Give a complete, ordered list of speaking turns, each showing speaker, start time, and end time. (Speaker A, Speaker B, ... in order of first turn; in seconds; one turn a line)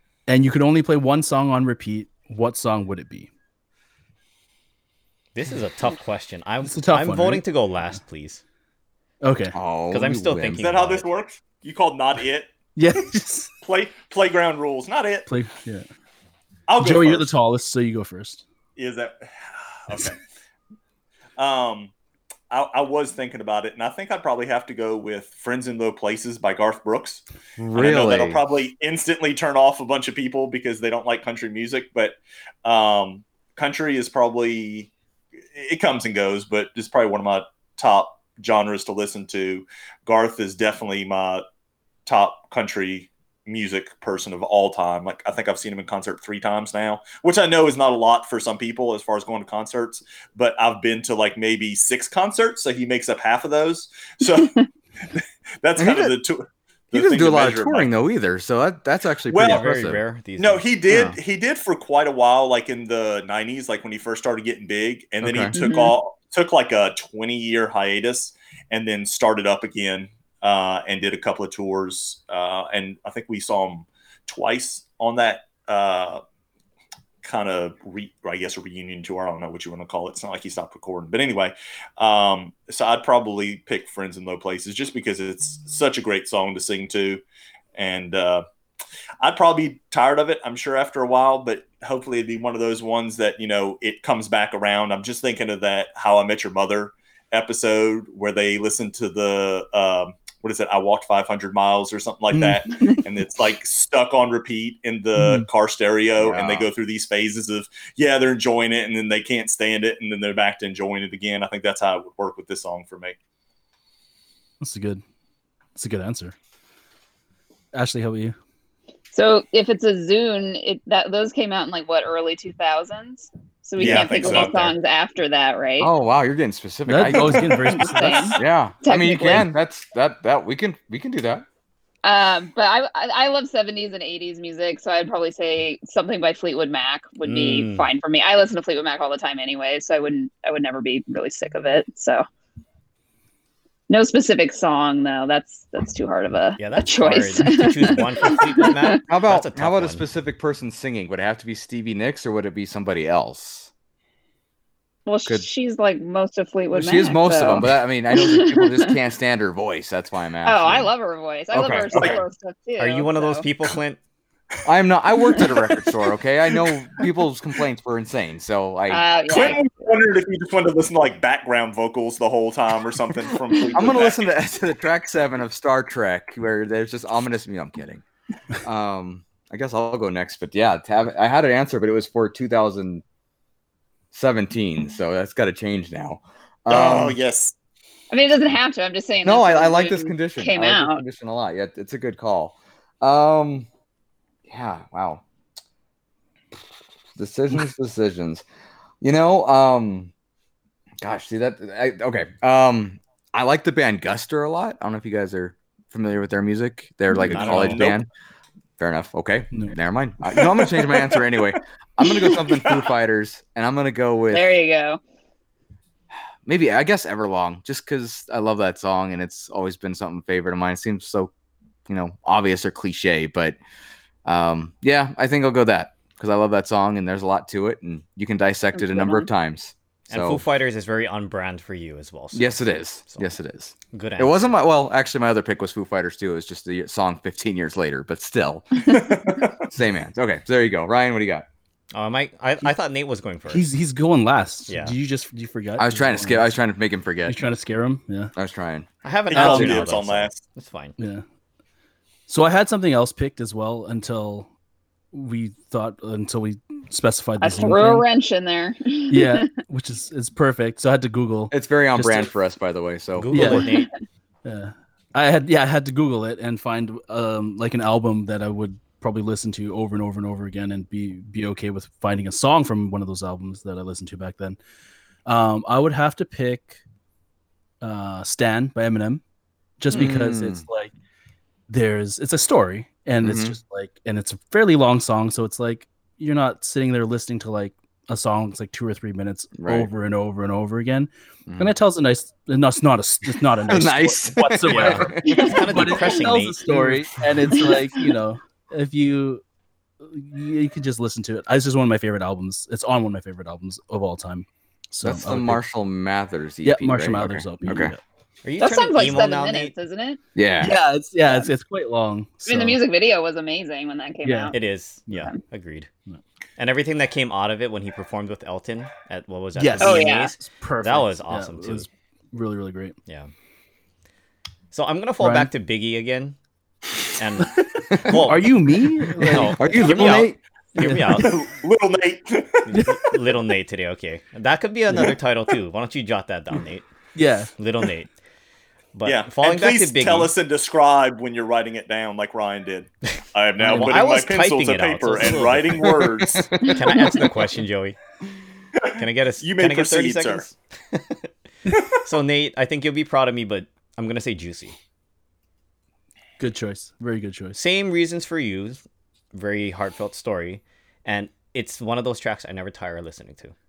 Speaker A: 0.3-3.3
Speaker B: 5.3-8.4
Speaker A: 6.6-7.4
Speaker A: 9.2-9.5
Speaker C: 9.5-10.7
Speaker B: 9.9-11.1
Speaker D: 10.6-12.5
Speaker A: 12.8-13.5
Speaker D: 13.6-15.3
Speaker A: 15.3-15.8
Speaker D: 16.7-17.3
Speaker A: 16.8-18.4
Speaker D: 18.8-20.2
Speaker D: 21.4-21.9
Speaker D: 22.5-34.9
Speaker C: 27.6-28.4
Speaker D: 35.5-41.4
Speaker D: 42.0-54.6
Speaker D: 55.1-57.9
Speaker C: 55.8-56.1
Speaker C: 56.9-60.0
Speaker D: 59.3-59.7
Speaker B: 59.4-60.6
Speaker D: 60.4-76.2
Speaker C: 60.9-61.2
Speaker C: 65.2-65.5
Speaker E: 65.5-65.9
Speaker D: 77.2-87.2
Speaker D: 87.7-88.4
Speaker D: 89.2-113.2
Speaker A: 105.2-105.5
Speaker C: 106.2-106.7
Speaker A: 114.6-115.0
Speaker A: 115.7-116.3
Speaker A: 117.7-118.3
Speaker E: 119.1-125.9
Speaker D: 123.8-124.7
Speaker B: 124.2-124.7
Speaker C: 125.8-131.4
Speaker A: 126.8-128.4
Speaker E: 127.7-129.5
Speaker E: 132.0-142.2
Speaker B: 137.2-137.9
Speaker E: 143.9-149.0
Speaker B: 146.6-150.0
Speaker C: 149.1-153.7
Speaker E: 155.1-158.9
Speaker C: 156.7-160.9
Speaker E: 160.4-163.4
Speaker C: 161.5-162.2
Speaker B: 162.8-164.0
Speaker C: 164.7-169.1
Speaker D: 165.3-165.8
Speaker D: 166.6-167.0
Speaker E: 168.9-169.7
Speaker D: 169.3-174.3
Speaker C: 173.7-178.0
Speaker C: 178.6-183.0
Speaker C: 184.1-187.2
Speaker D: 186.7-187.5
Speaker E: 188.1-191.0
Speaker C: 189.2-193.7
Speaker C: 194.5-195.2
Speaker C: 197.2-198.4
Speaker C: 199.0-200.1
Speaker C: 201.0-208.1
Speaker D: 207.2-208.0
Speaker B: 207.3-207.9
Speaker C: 208.8-214.5
Speaker D: 210.3-211.4
Speaker D: 212.1-212.9
Speaker E: 214.3-215.0
Speaker C: 216.4-221.3
Speaker C: 221.9-223.6
Speaker C: 224.2-230.4
Speaker E: 228.8-229.3
Speaker B: 230.1-233.3
Speaker C: 232.3-239.0
Speaker B: 233.9-234.6
Speaker D: 238.8-239.6
Speaker C: 239.7-241.4
Speaker B: 241.9-243.7
Speaker A: 243.5-246.5
Speaker B: 244.7-244.9
Speaker C: 245.8-247.4
Speaker A: 247.2-248.3
Speaker C: 248.3-248.9
Speaker B: 249.0-250.9
Speaker D: 249.3-250.4
Speaker A: 249.3-249.7
Speaker C: 249.4-249.8
Speaker A: 252.3-254.5
Speaker A: 255.1-258.1
Speaker E: 257.4-259.5
Speaker A: 259.1-262.3
Speaker C: 261.5-263.6
Speaker B: 263.1-263.9
Speaker A: 263.3-263.7
Speaker A: 264.4-274.6
Speaker A: 275.2-276.8
Speaker A: 277.8-279.2
Speaker A: 279.8-280.9
Speaker C: 279.9-280.6
Speaker A: 281.7-299.4
Speaker C: 283.2-283.6
Speaker C: 289.6-289.9
Speaker C: 291.5-291.7
Speaker C: 293.6-296.0
Speaker B: 294.6-296.8
Speaker E: 295.3-295.6
Speaker C: 296.7-297.5
Speaker A: 300.0-305.6
Speaker C: 305.0-307.9
Speaker A: 306.6-308.0
Speaker B: 308.4-309.7
Speaker E: 308.6-310.2
Speaker C: 310.3-310.7
Speaker A: 310.6-312.8
Speaker E: 312.4-314.6
Speaker A: 314.2-314.5
Speaker B: 314.5-315.9
Speaker B: 316.6-321.9
Speaker A: 319.5-323.0
Speaker E: 319.8-320.3
Speaker B: 324.7-326.4
Speaker A: 325.2-325.5
Speaker B: 327.1-328.5
Speaker C: 327.7-328.3
Speaker A: 328.2-330.2
Speaker C: 329.2-330.4
Speaker B: 329.3-331.3
Speaker A: 330.8-331.3
Speaker D: 331.2-332.9
Speaker B: 332.7-336.9
Speaker A: 337.1-337.5
Speaker B: 337.6-338.1
Speaker B: 338.9-340.3
Speaker D: 339.0-346.5
Speaker B: 343.6-348.0
Speaker C: 345.9-346.8
Speaker E: 346.9-347.2
Speaker D: 348.8-350.4
Speaker B: 349.0-351.3
Speaker B: 351.9-354.8
Speaker A: 356.4-357.6
Speaker B: 357.5-358.8
Speaker B: 359.3-363.5